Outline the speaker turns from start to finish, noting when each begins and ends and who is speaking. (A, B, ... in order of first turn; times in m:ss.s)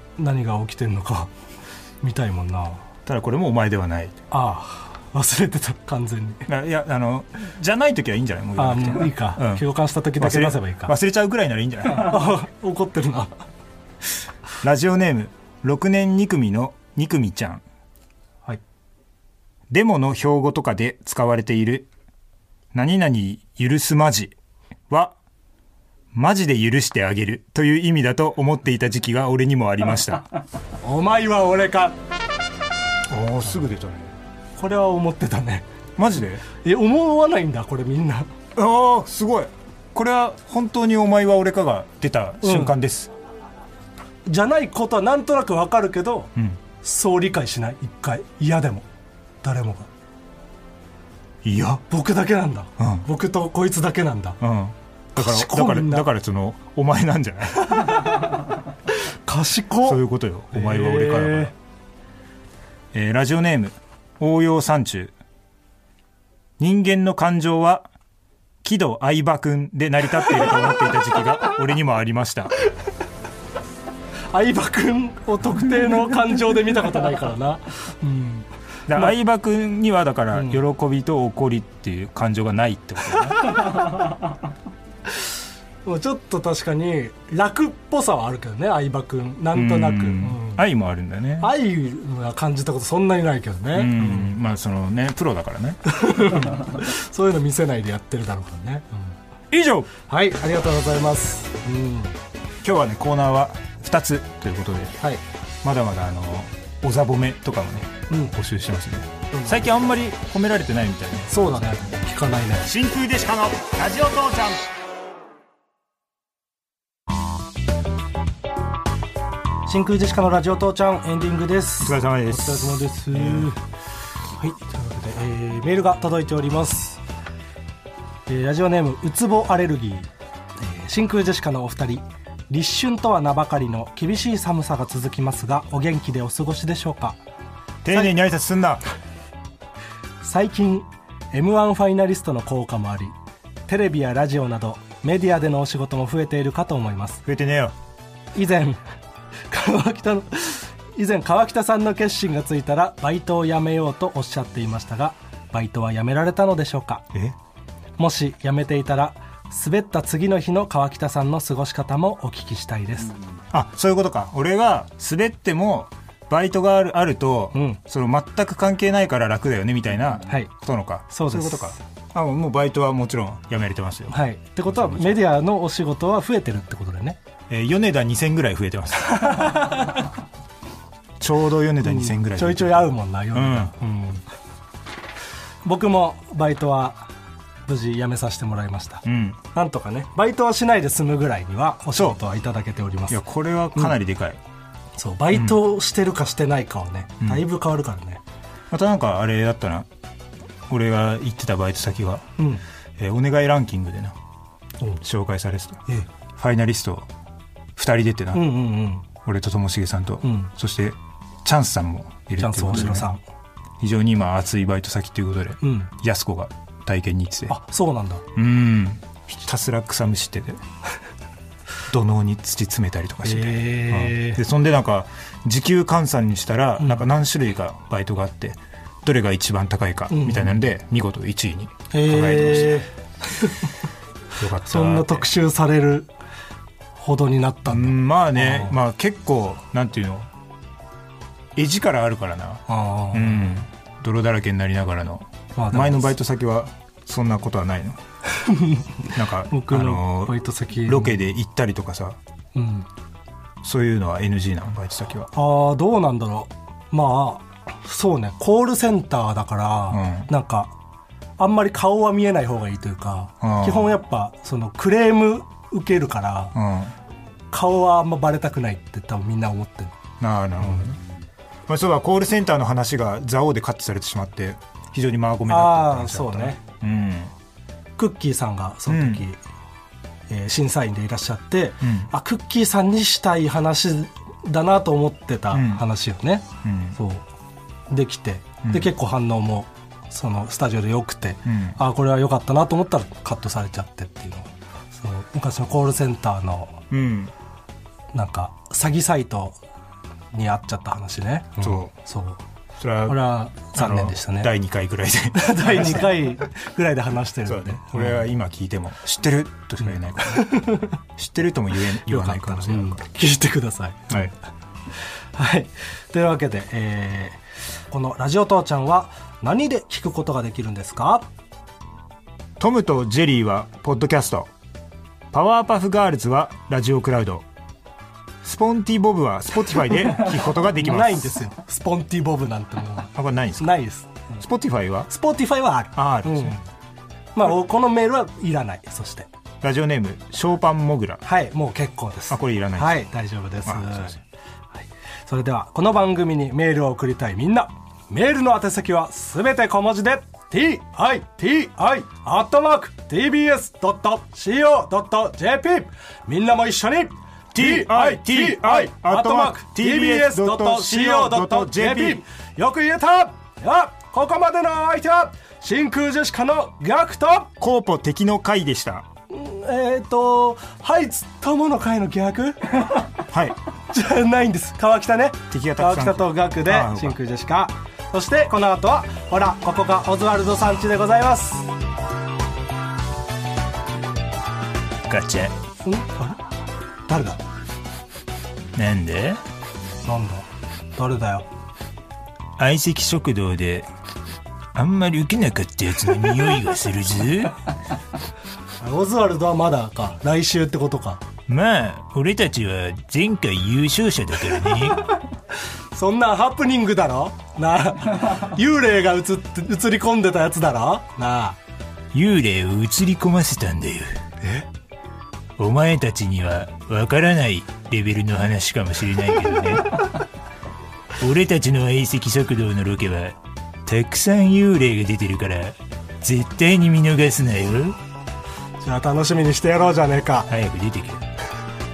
0:00.2-0:01.3 A
0:02.0-0:02.8 A
0:03.0-0:04.2 B
0:04.3-0:06.5 A
0:06.4-0:12.3 B
0:08.6-0:10.9 A
0:11.9-0:13.4 A
0:14.6-0:17.6 B
0:19.7-0:21.9 B
0:22.7-0:24.4 B
0:24.9-0:25.2 B
0:26.1-0:30.3 B
0:30.8-0:32.0 A
0:33.1-0:34.1 B
0:34.6-0:35.6 A
0:36.0-0:36.4 B
0:36.5-0:38.3 A
0:38.6-0:43.1 B
0:42.4-0:42.7 A
0:44.3-0:48.9 A
0:49.4-0:49.9 A
0:51.4-0:51.8 B
0:51.9-0:54.4 A
0:52.8-0:53.1 B
0:54.4-0:58.1 B
0:55.2-0:56.1 A
0:57.8-0:58.1 A
0:59.0-1:00.0 A
0:59.8-1:01.5 B
1:00.5-1:01.5 A
1:02.9-1:05.1 B
1:06.6-1:07.9 B
1:08.6-1:12.6 B
1:14.3-1:18.5 A
1:18.9-1:23.8 B
1:20.3-1:20.6 A
1:25.8-1:30.6 A
1:29.5-1:31.5 B
1:31.4-1:34.3 A
1:33.7-1:35.8 B
1:35.9-1:39.2 A
1:39.5-1:39.9 B
1:40.1-1:42.2 A
1:42.6-1:45.0 B
1:45.6-1:51.4 B
1:48.1-1:48.3 A
1:49.3-1:49.6 A
1:51.3-1:52.7 A
1:52.6-1:54.7 B
1:59.6-2:03.6 A
2:01.8-2:03.5 B
2:04.3-2:07.0 A
2:08.3-2:17.2 A
2:17.8-2:18.8 B
2:20.2-2:23.2 A
2:23.7-2:27.2 A
2:27.2-2:27.8 B
2:28.3-2:28.8 A
2:29.5-2:37.0 A
2:38.0-2:43.1 A
2:43.5-2:55.2 B
2:47.5-2:47.8 A
2:51.1-2:51.8 A
2:54.1-2:57.2 A
2:57.5-2:59.8 B
2:59.0-3:00.0 A
3:01.2-3:03.7 B
3:01.8-3:04.2 A
3:05.6-3:07.1 A
3:07.6-3:13.2 A
3:09.0-3:09.4 B
3:11.9-3:12.2 B
3:13.1-3:14.4 B
3:15.0-3:18.2 A
3:15.3-3:15.6 B
3:17.2-3:17.4 B
3:18.7-3:19.9 B
3:20.7-3:22.2 B
3:22.4-3:22.6 A
3:23.0-3:24.2 B
3:25.0-3:27.1 B
3:27.8-3:28.6 B
3:28.3-3:29.1 A
3:29.2-3:33.1 B
3:30.2-3:30.5 A
3:32.4-3:33.2 A
3:33.8-3:37.6 B
3:35.6-3:35.9 A
3:37.5-3:38.2 A
3:38.4-3:40.6 B
3:41.9-3:52.9 B
3:43.2-3:44.4 A
3:46.8-3:47.0 A
3:50.1-3:50.5 A
3:51.9-3:53.7 A
3:54.4-3:55.3 B
3:54.6-3:56.1 A
3:57.0-3:58.7 A
3:57.7-4:00.3 B
4:01.6-4:08.0 B
4:02.7-4:03.5 A
4:05.6-4:06.1 A
4:08.3-4:11.2 A
4:09.1-4:12.2 B
4:12.6-4:12.9 A
4:13.6-4:15.3 B
4:15.3-4:20.7 A
4:19.9-4:20.3 B
4:21.4-4:26.6 A
4:23.4-4:24.0 B
4:26.6-4:26.9 B
4:27.5-4:29.9 A
4:30.2-4:31.0 B
4:31.7-4:37.3 B
4:35.5-4:36.6 A
4:38.0-4:39.4 A
4:38.9-4:39.2 B
4:40.3-4:47.2 A
4:41.8-4:42.1 B
4:45.5-4:45.8 B
4:46.6-4:47.0 B
4:47.9-4:56.8 A
4:48.6-4:48.9 B
4:51.4-4:51.8 B
4:56.9-4:57.3 B
4:58.1-4:59.6 A
5:00.3-5:02.4 A
5:01.6-5:01.9 B
5:02.8-5:06.3 B
5:03.1-5:04.5 A
5:05.4-5:08.2 A
5:07.4-5:10.6 B
5:09.8-5:11.0 A
5:11.2-5:13.0 B
5:12.1-5:14.2 A
5:14.1-5:14.3 B
5:15.4-5:21.2 A
5:22.6-5:24.5 B
5:25.3-5:27.4 B
5:28.4-5:31.4 B
5:30.6-5:34.4 A
5:33.1-5:33.8 B
5:34.4-5:35.1 B
5:35.1-5:36.6 A
5:35.9-5:36.6 B
5:37.4-5:39.3 A
5:39.6-5:41.2 B
5:41.2-5:44.2 A
5:42.3-5:43.1 B
5:43.6-5:44.2 B
5:44.8-6:07.5 A
5:57.5-6:02.2 B
6:07.6-6:09.1 B
6:09.3-6:13.1 A
6:13.3-6:13.6 B
6:13.9-6:21.7 A
6:15.5-6:17.2 B
6:25.1-6:25.6 B
6:25.8-6:26.4 A
6:27.1-6:27.4 A
6:28.7-6:29.4 B
6:30.0-6:31.5 A
6:32.6-6:33.9 B
6:34.7-6:37.6 B
6:38.8-6:41.2 A
6:41.5-6:45.1 B
6:45.9-6:51.6 A
6:52.1-6:54.2 B
6:55.6-7:00.2 B
7:01.2-7:08.0 B
7:08.8-7:10.5 A
7:10.5-7:11.2 B